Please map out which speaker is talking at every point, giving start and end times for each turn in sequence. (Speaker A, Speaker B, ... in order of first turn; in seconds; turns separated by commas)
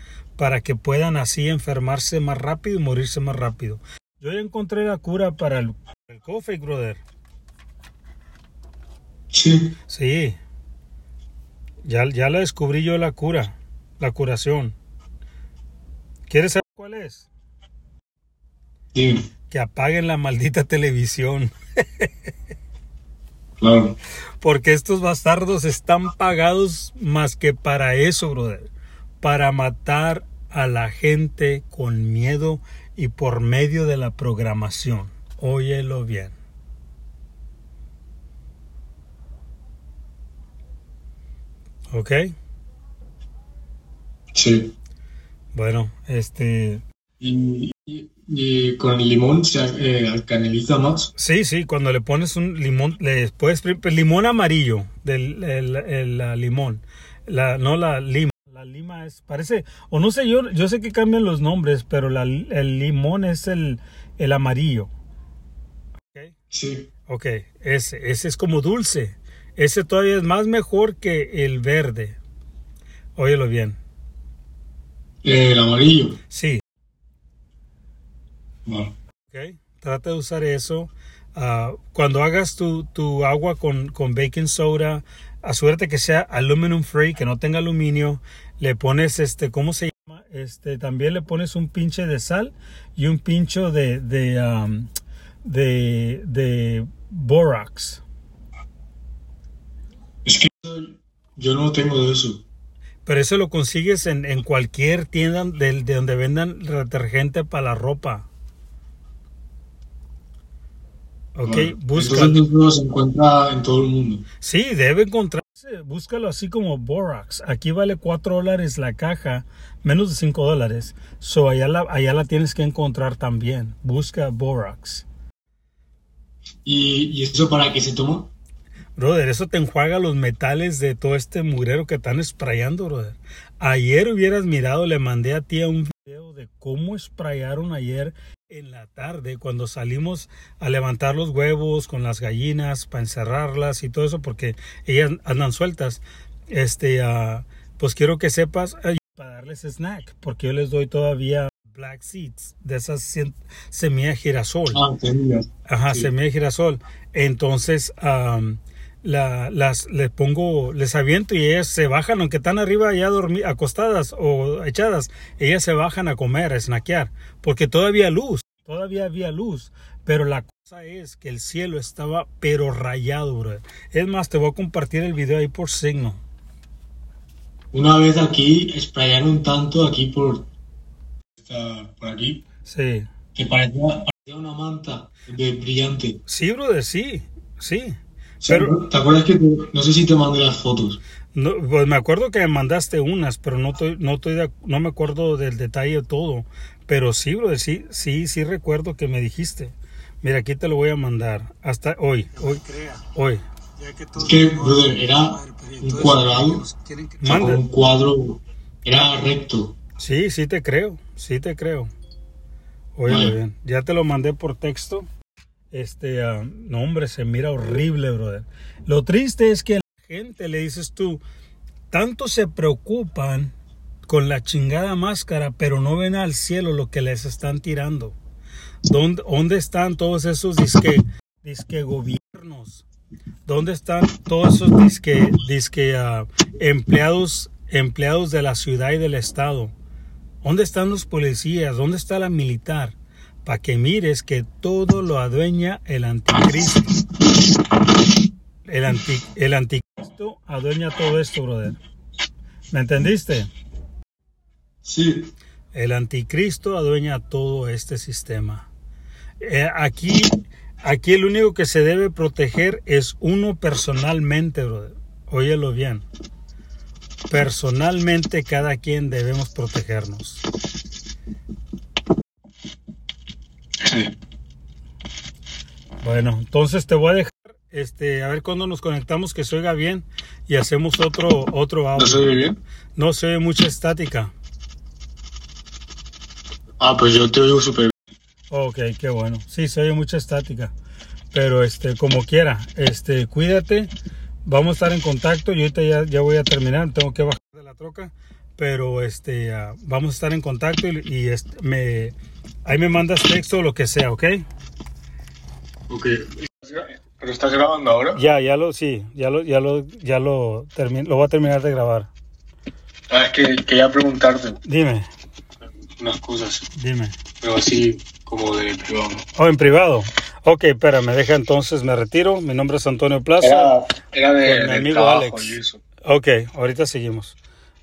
Speaker A: 0.4-7.0, Speaker B: 9.3-9.8, Speaker A: 9.9-10.4, Speaker A: 11.8-14.8, Speaker A: 16.3-17.3, Speaker B: 18.9-19.2, Speaker A: 19.5-22.1, Speaker B: 23.6-24.0, Speaker A: 24.4-28.7, Speaker A: 29.2-36.4, Speaker A: 41.9-42.3, Speaker B: 44.3-44.8, Speaker A: 45.5-46.8, Speaker B: 47.2-51.1, Speaker A: 51.2-64.9, Speaker B: 66.5-66.9, Speaker A: 67.1-72.2, Speaker A: 73.2-73.8, Speaker B: 75.2-76.2, Speaker A: 76.3-76.6, Speaker B: 78.7-78.9, Speaker A: 79.3-94.9, Speaker A: 95.5-98.0, Speaker B: 100.2-102.4, Speaker A: 103.1-108.3, Speaker A: 111.4-112.5, Speaker B: 111.4-114.2, Speaker A: 114.4-125.0, Speaker B: 126.7-128.3, Speaker A: 129.0-154.8, Speaker B: 154.7-156.1, Speaker A: 155.7-176.2, Speaker B: 177.7-180.5, Speaker B: 181.4-182.4, Speaker A: 182.7-183.1, Speaker B: 183.3-186.2, Speaker A: 186.3-188.8, Speaker B: 188.4-191.0, Speaker A: 191.3-207.6, Speaker B: 204.2-206.6, Speaker B: 207.2-209.8, Speaker A: 210.0-211.9, Speaker A: 213.0-215.1, Speaker B: 213.1-213.3, Speaker A: 215.7-221.2, Speaker A: 221.9-223.5, Speaker A: 224.1-228.2, Speaker A: 228.9-232.8, Speaker A: 233.5-239.7, Speaker A: 240.4-246.9, Speaker A: 248.7-251.8, Speaker A: 252.7-253.5, Speaker B: 254.8-255.3, Speaker A: 255.7-258.7, Speaker A: 259.4-266.1, Speaker A: 267.3-270.4, Speaker B: 273.8-274.1, Speaker A: 276.0-282.3, Speaker B: 282.0-282.6, Speaker A: 283.0-284.3, Speaker B: 286.8-287.9, Speaker A: 288.5-290.7, Speaker A: 291.3-293.9, Speaker A: 294.5-302.1, Speaker A: 302.7-304.4, Speaker B: 305.9-308.2, Speaker A: 308.1-312.1, Speaker B: 313.1-314.6, Speaker A: 314.6-315.1, Speaker B: 316.0-316.7, Speaker A: 316.8-317.2, Speaker B: 317.4-319.3, Speaker A: 319.4-323.7, Speaker B: 323.4-325.8, Speaker A: 324.4-327.4